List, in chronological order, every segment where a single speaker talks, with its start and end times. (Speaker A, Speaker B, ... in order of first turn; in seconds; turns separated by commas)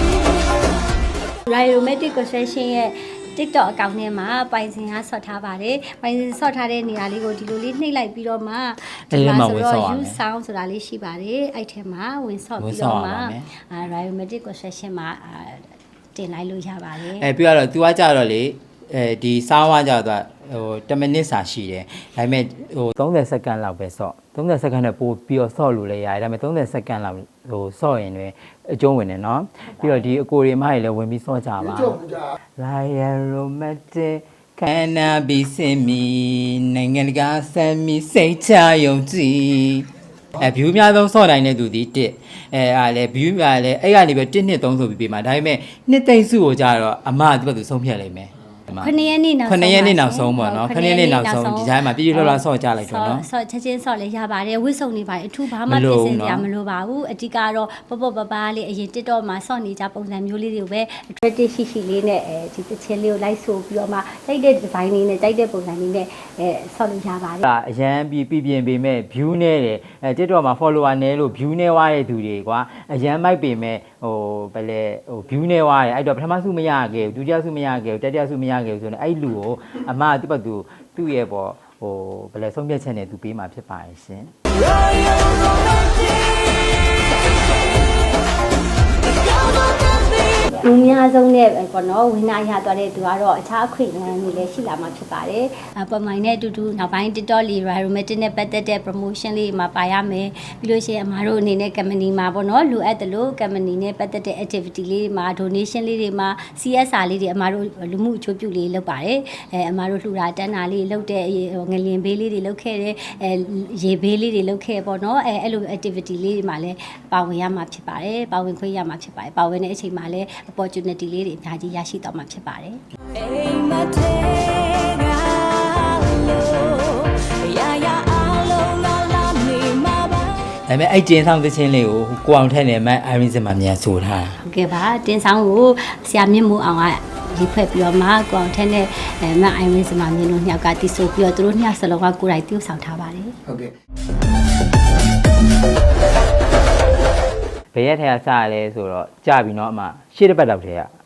Speaker A: 1.5-17.3, Speaker B: 9.1-10.2, Speaker B: 12.6-13.5, Speaker B: 17.2-48.9, Speaker A: 48.8-67.4, Speaker B: 49.5-53.2, Speaker B: 55.7-56.5, Speaker B: 67.4-84.3, Speaker A: 90.5-122.8, Speaker C: 123.1-130.4, Speaker B: 130.5-134.4, Speaker A: 134.4-143.3, Speaker B: 147.7-150.9